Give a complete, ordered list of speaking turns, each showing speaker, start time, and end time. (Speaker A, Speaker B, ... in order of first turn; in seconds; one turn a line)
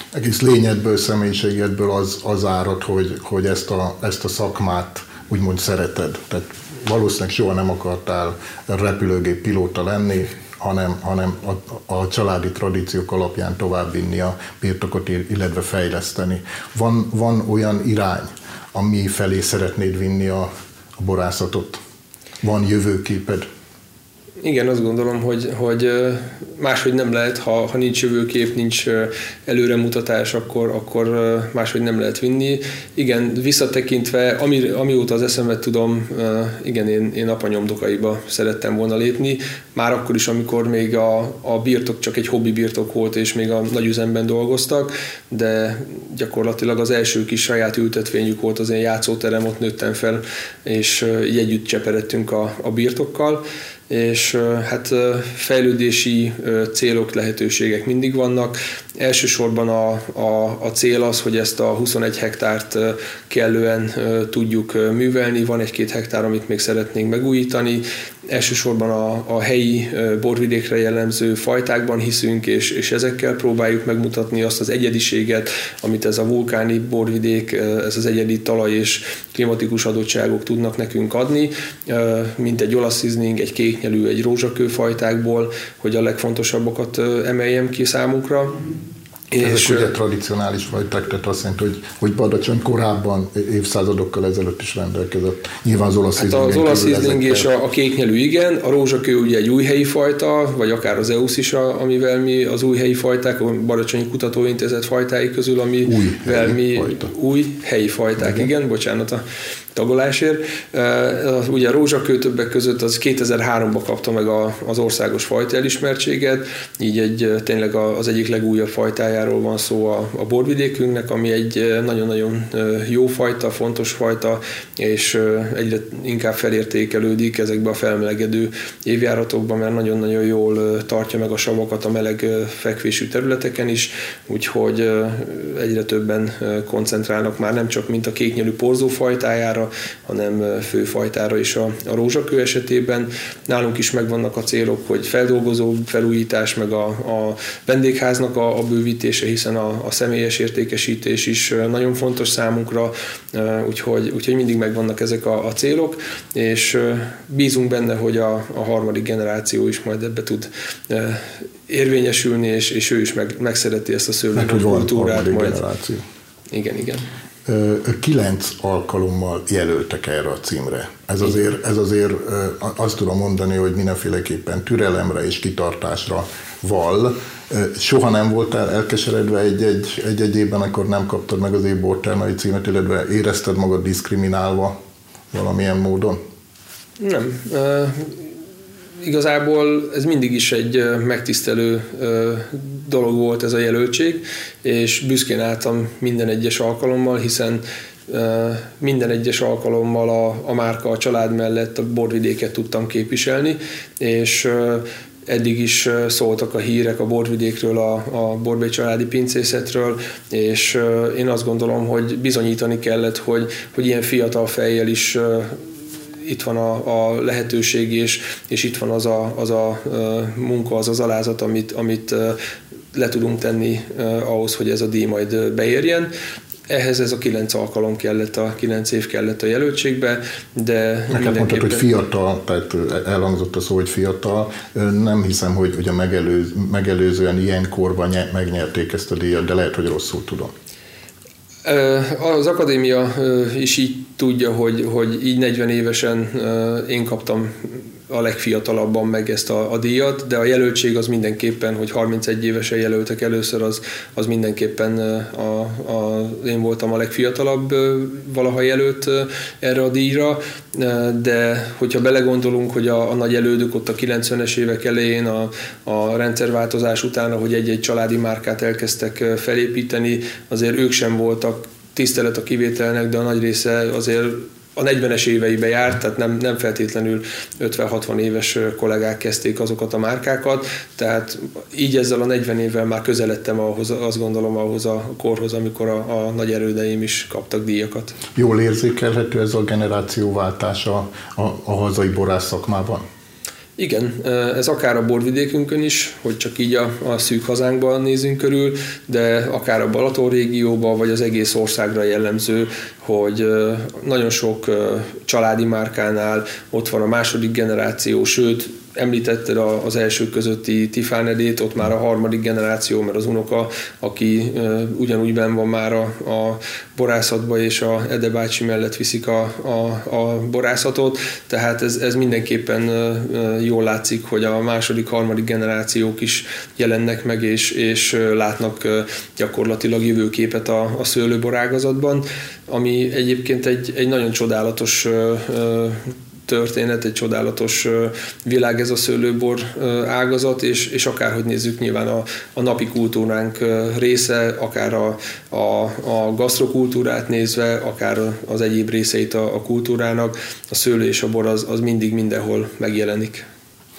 Speaker A: 0.1-21.8
Speaker A: 22.4-23.4
Speaker B: 24.4-88.6
Speaker B: 89.3-89.9
Speaker A: 89.4-97.5
Speaker B: 96.2-109.2
Speaker A: 105.8-107.1
Speaker B: 109.7-165.6
Speaker A: 164.3-166.0
Speaker B: 166.5-167.1
Speaker A: 167.4-184.8
Speaker A: 185.3-186.2
Speaker B: 187.0-188.2
Speaker B: 189.0-215.6
Speaker B: 216.2-222.4
Speaker B: 222.9-226.1
Speaker B: 226.7-231.8
Speaker A: 231.1-240.5
Speaker B: 241.6-288.1
Speaker A: 288.3-293.1
Speaker B: 293.8-353.4